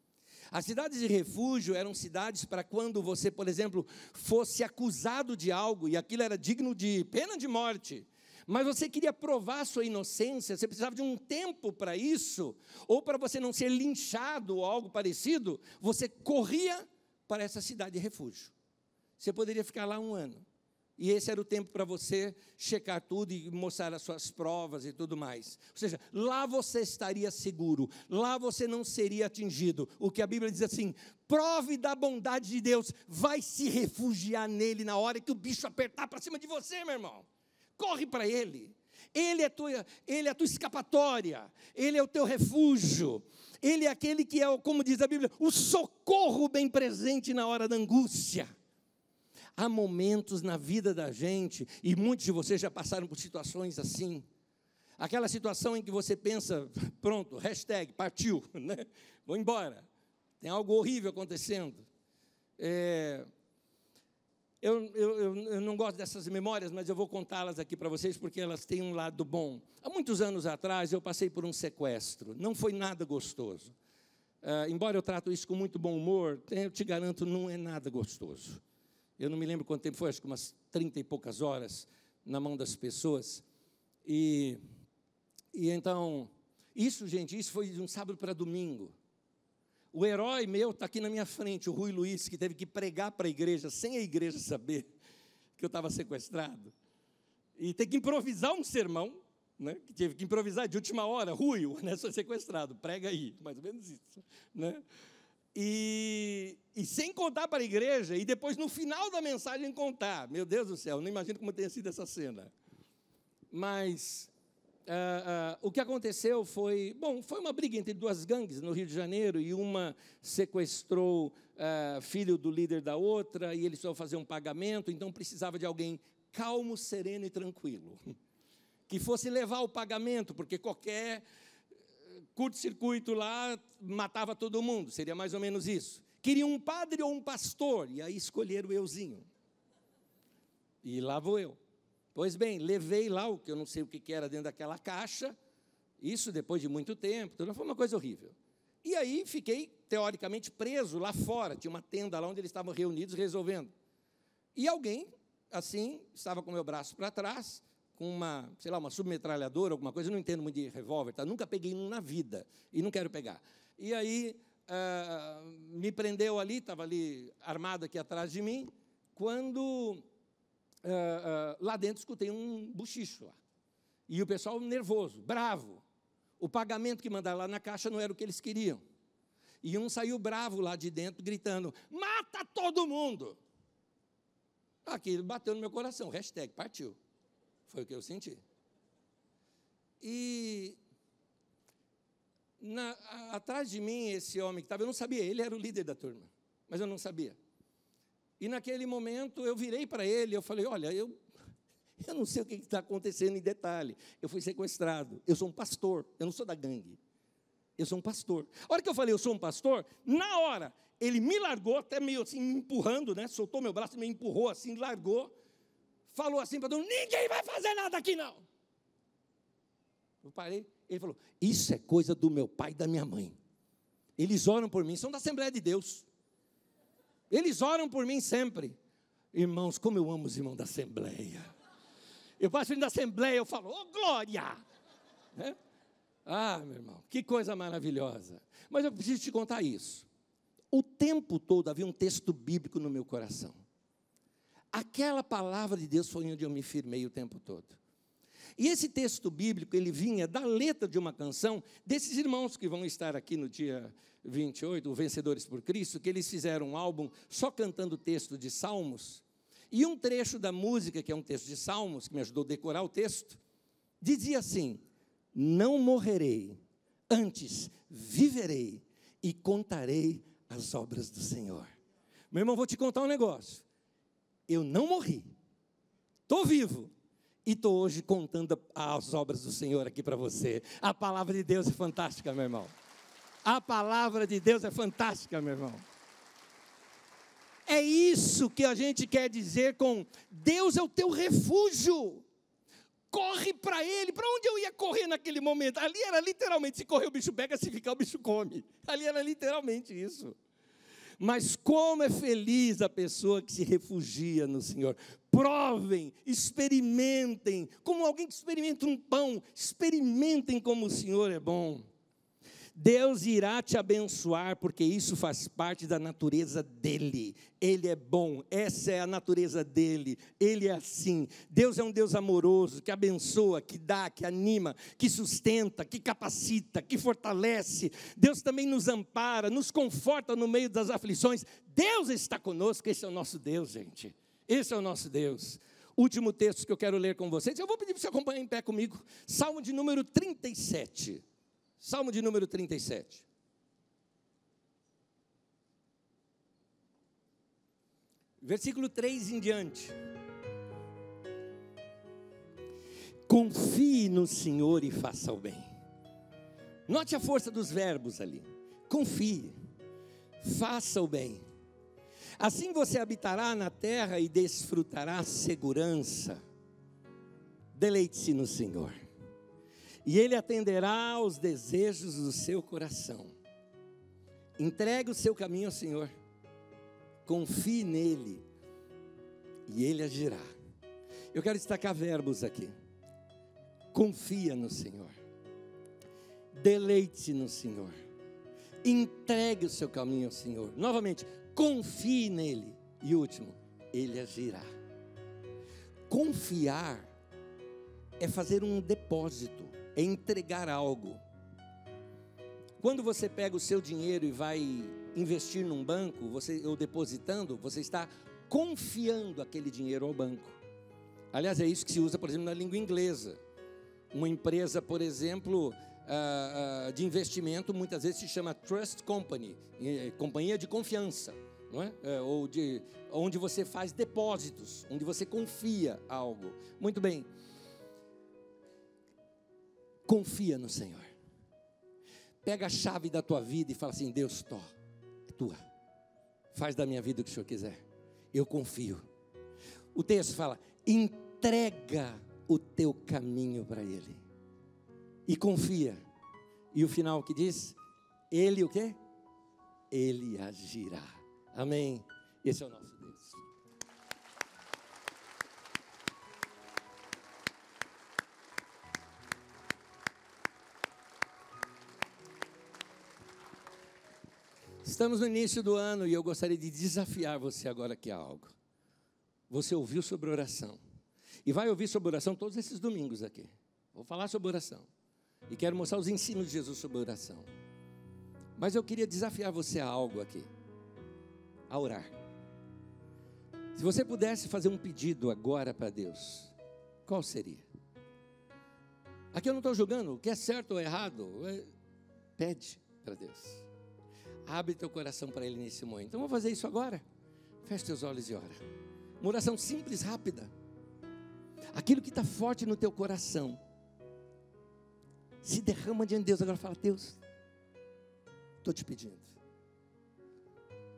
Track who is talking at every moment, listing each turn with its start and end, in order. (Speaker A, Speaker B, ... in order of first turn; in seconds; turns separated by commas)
Speaker A: 0.5-18.5, Speaker A: 19.2-20.4, Speaker A: 21.0-48.5, Speaker A: 49.6-54.2, Speaker A: 55.0-59.9, Speaker A: 60.4-61.9, Speaker A: 62.6-63.3, Speaker A: 64.6-73.7, Speaker A: 74.4-78.6, Speaker A: 79.2-83.4, Speaker A: 84.0-84.6, Speaker A: 85.5-89.0, Speaker A: 89.9-94.9, Speaker A: 95.6-96.7, Speaker A: 97.6-104.8, Speaker A: 105.5-112.5, Speaker A: 113.5-114.3, Speaker A: 114.9-128.0, Speaker A: 128.9-131.2, Speaker A: 132.3-139.3, Speaker A: 140.8-141.6, Speaker A: 142.1-145.3, Speaker A: 146.0-153.7, Speaker A: 154.6-170.0, Speaker A: 170.8-173.4, Speaker A: 174.1-175.8, Speaker A: 176.4-178.8, Speaker A: 179.6-183.4, Speaker A: 184.8-187.0, Speaker A: 187.7-188.4, Speaker A: 190.0-190.8, Speaker A: 192.6-197.4, Speaker A: 198.4-201.2, Speaker A: 202.0-207.0, Speaker A: 207.8-215.3, Speaker A: 216.1-218.4, Speaker A: 220.2-223.4, Speaker A: 224.2-226.1, Speaker A: 227.3-228.8, Speaker A: 229.3-231.5, Speaker A: 232.4-234.6, Speaker A: 236.3-240.1, Speaker A: 240.7-243.6, Speaker A: 244.7-247.8, Speaker A: 248.6-263.4, Speaker A: 264.0-264.8, Speaker A: 265.3-266.6, Speaker A: 267.1-271.7, Speaker A: 272.3-273.6, Speaker A: 274.5-275.3, Speaker A: 276.3-276.9, Speaker A: 277.4-282.7, Speaker A: 283.4-285.8, Speaker A: 287.7-292.3, Speaker A: 293.1-300.4, Speaker A: 301.2-311.9, Speaker A: 312.8-341.2, Speaker A: 341.8-343.3, Speaker A: 348.4-350.0, Speaker A: 353.3-355.7, Speaker A: 356.9-359.6, Speaker A: 360.4-361.4, Speaker A: 362.4-366.4, Speaker A: 367.7-369.0, Speaker A: 370.1-373.3, Speaker A: 374.6-376.1, Speaker A: 377.3-378.4, Speaker A: 379.7-380.5, Speaker A: 381.3-382.7, Speaker A: 383.9-385.1, Speaker A: 386.6-387.9, Speaker A: 388.8-394.7, Speaker A: 396.1-397.1, Speaker A: 398.2-401.2, Speaker A: 402.8-410.6, Speaker A: 411.3-413.4, Speaker A: 414.1-427.3, Speaker A: 430.1-431.1, Speaker A: 432.4-434.7, Speaker A: 435.3-435.6, Speaker A: 436.5-439.1, Speaker A: 439.9-444.2, Speaker A: 445.3-446.0, Speaker A: 446.7-447.8, Speaker A: 448.3-449.0, Speaker A: 449.9-453.4, Speaker A: 464.8-468.5, Speaker A: 469.5-470.8, Speaker A: 471.4-474.9, Speaker A: 475.5-477.5, Speaker A: 478.6-480.5, Speaker A: 481.7-482.1, Speaker A: 483.8-486.5, Speaker A: 487.1-487.6, Speaker A: 489.3-491.7, Speaker A: 492.4-493.7, Speaker A: 494.5-497.0, Speaker A: 497.6-498.6, Speaker A: 499.2-500.5, Speaker A: 501.7-503.6, Speaker A: 505.4-507.2, Speaker A: 508.6-509.4